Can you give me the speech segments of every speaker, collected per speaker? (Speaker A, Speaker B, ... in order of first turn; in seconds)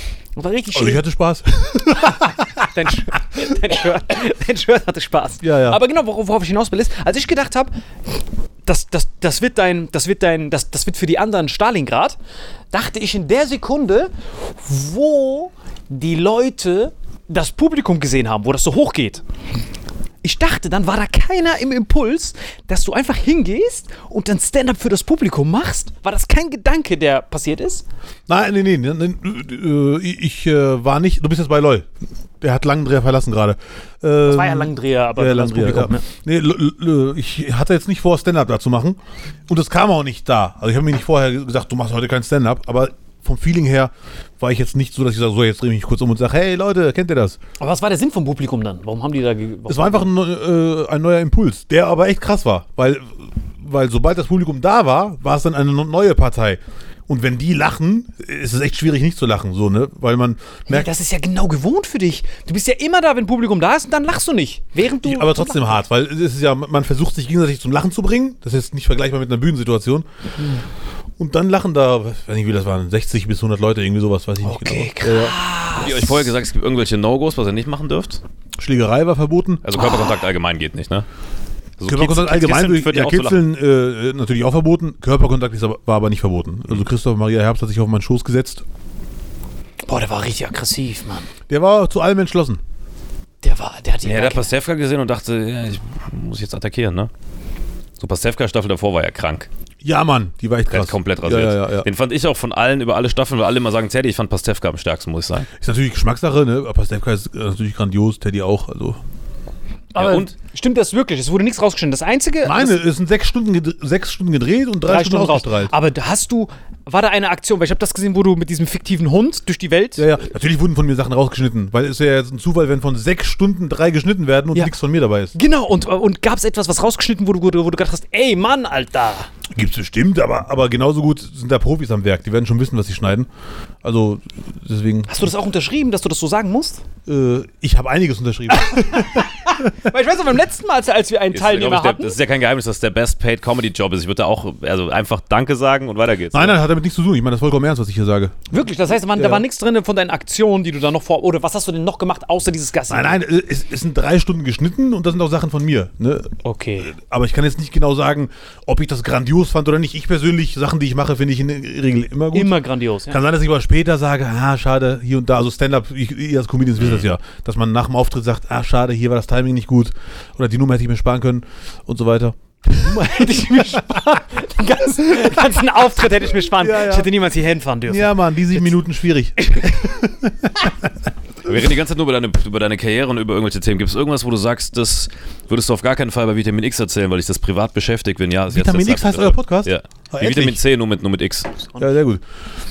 Speaker A: 0.3-1.0, 2.1-12.2, 12.7-19.2, 20.2-27.8, 34.2-36.0, 47.6-50.1, 60.7-65.8, 74.4-76.2, 89.8-91.3, 93.4-94.5, 109.9-112.8, 114.8-120.1, 125.3-129.3, 135.1-136.8, 138.6-142.2, 148.5-153.2, 156.4-156.9, 162.3-163.2, 172.7-178.7, 179.4-179.9
Speaker B: 0.7-2.7, 5.4-5.8, 28.3-31.9, 32.4-47.4, 49.7-53.0, 53.6-60.9, 65.0-70.0, 71.2-75.3, 78.6-79.6, 81.9-88.6, 91.5-92.6, 99.8-101.9, 105.6-109.0, 112.4-115.7, 120.0-125.3, 129.5-133.3, 133.8-135.3, 137.1-139.7, 146.3-148.5, 149.1-149.4, 152.9-156.3, 156.8-162.6, 163.1-173.1, 176.5-177.1, 177.9-180.6, 188.5-190.6, 191.8-192.2
Speaker C: 75.7-78.2, 79.6-81.0, 81.8-83.4, 94.0-97.1, 98.0-99.5, 100.7-105.5, 109.9-110.3, 141.3-146.6, 181.4-191.5